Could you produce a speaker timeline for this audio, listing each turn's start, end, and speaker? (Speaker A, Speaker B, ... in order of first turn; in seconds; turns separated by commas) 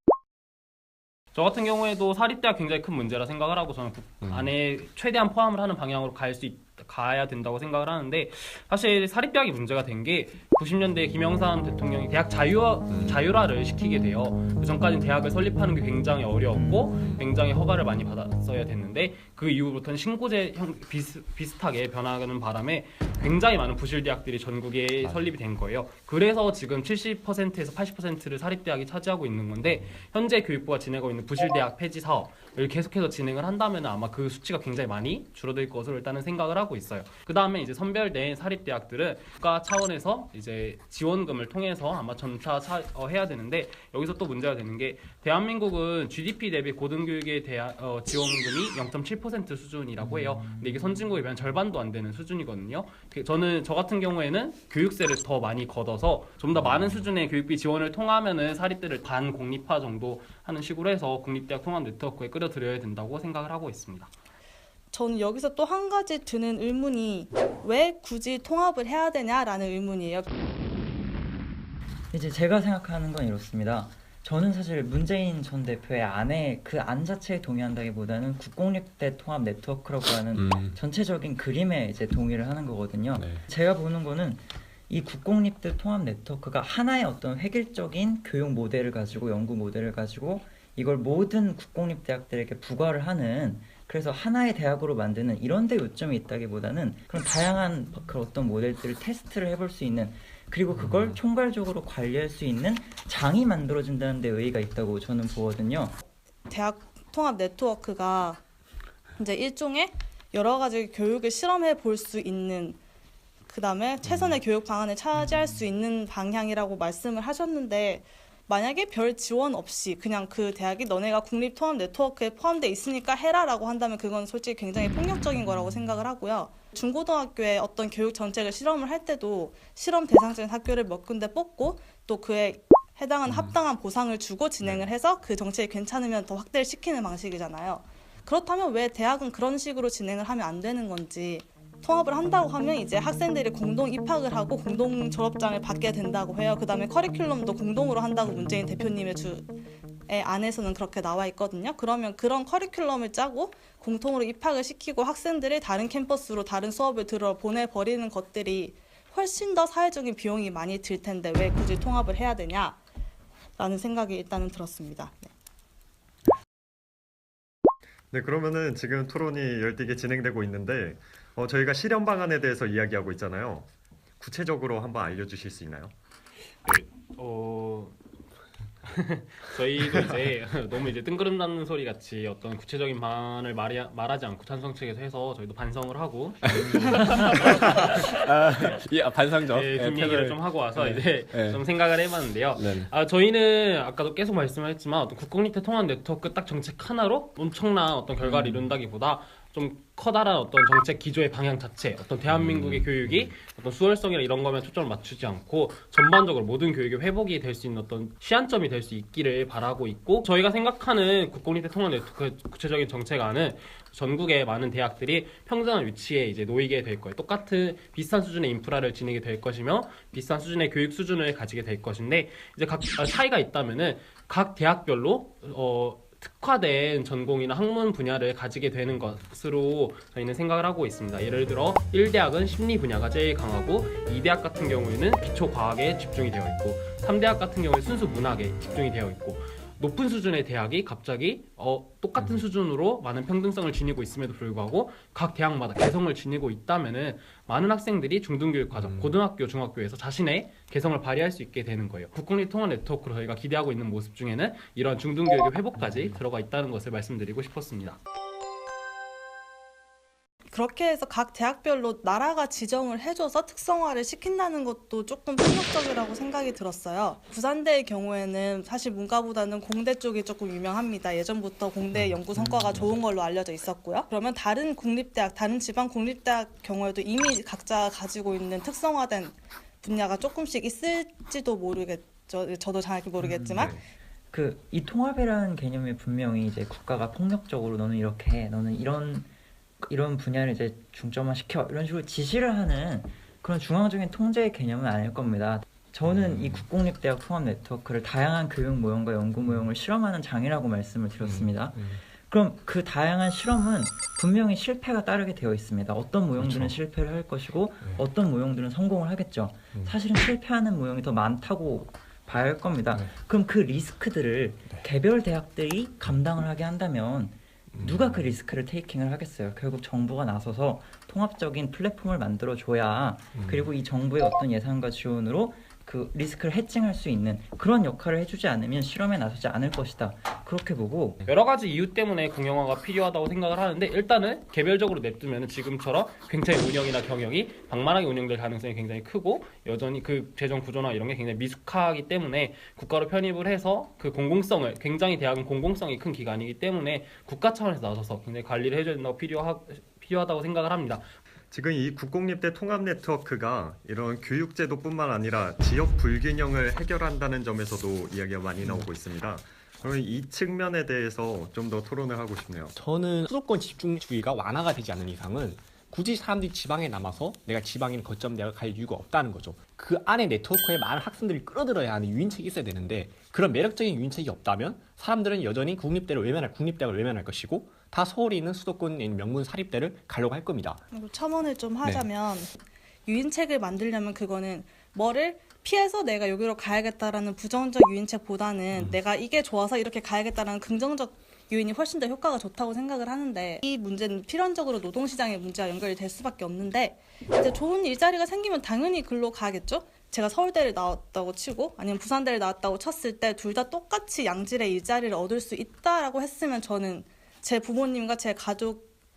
Speaker A: 1.3-64.1, Speaker B: 16.5-16.9, Speaker C: 64.9-70.3, Speaker B: 72.1-106.0, Speaker C: 106.5-108.4, Speaker C: 109.2-112.8, Speaker C: 113.5-149.5, Speaker C: 150.1-162.8, Speaker C: 163.6-165.3, Speaker D: 168.1-173.7, Speaker D: 174.2-175.9, Speaker A: 176.6-178.0, Speaker A: 178.8-188.1, Speaker E: 186.5-190.0, Speaker A: 189.5-258.0, Speaker E: 198.3-198.5, Speaker E: 202.4-202.8, Speaker C: 260.5-283.8, Speaker B: 283.2-283.7, Speaker B: 284.3-289.3, Speaker B: 289.8-331.2, Speaker A: 331.2-351.1, Speaker D: 351.5-362.7, Speaker F: 362.8-380.8, Speaker C: 380.9-382.5, Speaker C: 383.1-408.9